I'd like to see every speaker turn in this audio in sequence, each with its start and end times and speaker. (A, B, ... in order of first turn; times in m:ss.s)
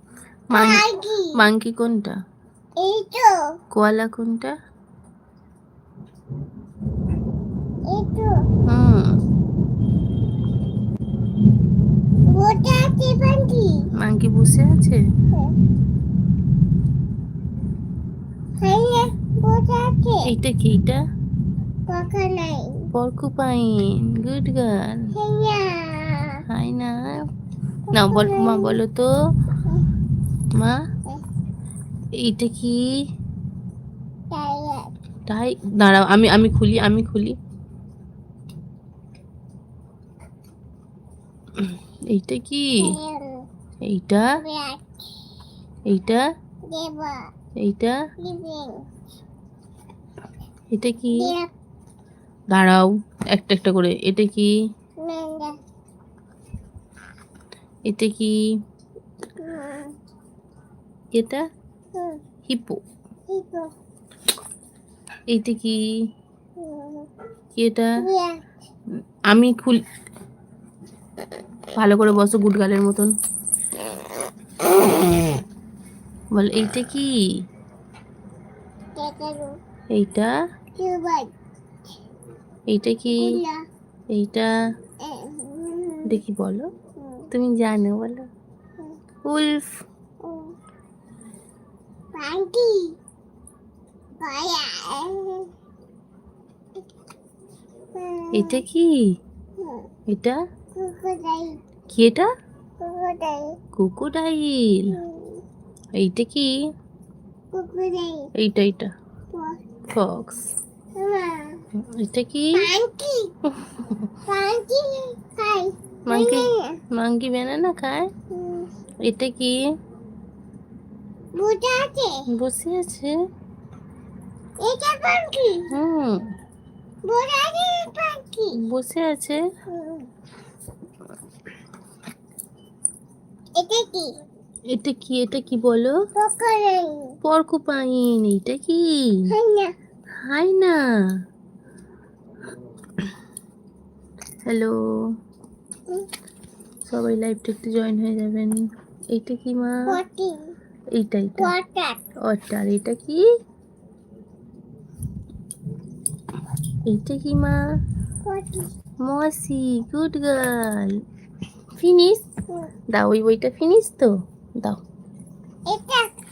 0:00.5-0:02.2 A
0:00.5-0:01.4 B
0:02.8-0:03.5 B
0:03.7-0:04.5 A
0:07.9-0:08.5 B
0:08.7-0:09.2 A
0:12.2-0:13.9 B
0:14.0-0:15.0 A
0:18.6-0:20.3 B
0:20.2-0:21.0 A
0:21.9-0:22.9 B
0:22.9-0:25.1 A
0:25.1-0:26.4 B
0:26.5-0:27.3 A
0:27.9-0:28.8 B
0:27.9-0:29.1 A
0:30.5-0:30.8 A
0:32.2-0:32.9 A
0:34.3-0:34.9 B
0:35.3-0:37.4 A
0:41.6-0:42.9 A
0:42.8-0:43.4 B
0:43.8-0:44.3 A
0:44.4-0:45.0 B
0:45.9-0:46.2 A
0:46.7-0:47.2 B
0:47.6-0:48.0 A
0:48.2-0:48.8 B
0:50.7-0:51.3 A
0:51.1-0:51.5 B
0:52.5-0:54.5 A
0:55.0-0:55.5 B
0:57.8-0:58.3 A
0:59.4-0:59.9 B
1:01.1-1:01.4 A
1:01.9-1:02.2 B
1:02.5-1:02.8 A
1:03.3-1:03.7 B
1:05.3-1:05.8 A
1:06.6-1:07.1 B
1:07.6-1:08.0 A
1:08.0-1:08.4 B
1:09.3-1:09.8 A
1:11.7-1:13.1 A
1:16.3-1:17.1 A
1:19.0-1:19.6 B
1:19.9-1:20.3 A
1:20.8-1:21.3 B
1:22.7-1:23.4 A
1:23.1-1:23.6 B
1:24.1-1:24.5 A
1:25.0-1:26.2 B
1:26.0-1:26.7 A
1:27.0-1:27.3 B
1:27.3-1:28.3 A
1:29.2-1:29.8 A
1:30.2-1:30.6 B
1:32.1-1:33.0 B
1:34.2-1:35.5 B
1:37.9-1:38.6 B
1:38.3-1:39.2 A
1:39.6-1:39.9 B
1:40.1-1:40.4 A
1:40.7-1:41.6 B
1:41.9-1:42.3 A
1:42.8-1:43.6 B
1:43.7-1:44.9 A
1:44.9-1:45.4 B
1:45.9-1:46.7 A
1:47.5-1:48.3 B
1:48.4-1:48.9 A
1:49.9-1:50.5 A
1:50.9-1:51.6 B
1:51.7-1:52.7 A
1:52.5-1:53.3 B
1:53.5-1:54.1 A
1:54.3-1:56.8 B
1:56.1-1:58.1 A
1:58.3-1:58.7 B
1:59.0-1:59.6 A
2:01.3-2:02.2 B
2:02.3-2:03.2 A
2:04.6-2:05.7 B
2:05.7-2:06.3 A
2:07.0-2:08.6 B
2:08.6-2:09.4 A
2:09.7-2:10.1 B
2:13.6-2:14.1 B
2:14.7-2:16.0 A
2:16.1-2:17.2 B
2:17.2-2:19.2 A
2:19.3-2:19.7 B
2:20.2-2:20.8 A
2:24.4-2:24.8 A
2:26.8-2:30.0 A
2:29.8-2:30.5 B
2:30.9-2:31.5 A
2:31.4-2:32.0 B
2:32.2-2:33.2 A
2:36.8-2:37.6 A
2:38.2-2:38.7 B
2:39.0-2:41.0 A
2:41.8-2:42.2 A
2:42.9-2:44.8 A
2:45.7-2:46.1 B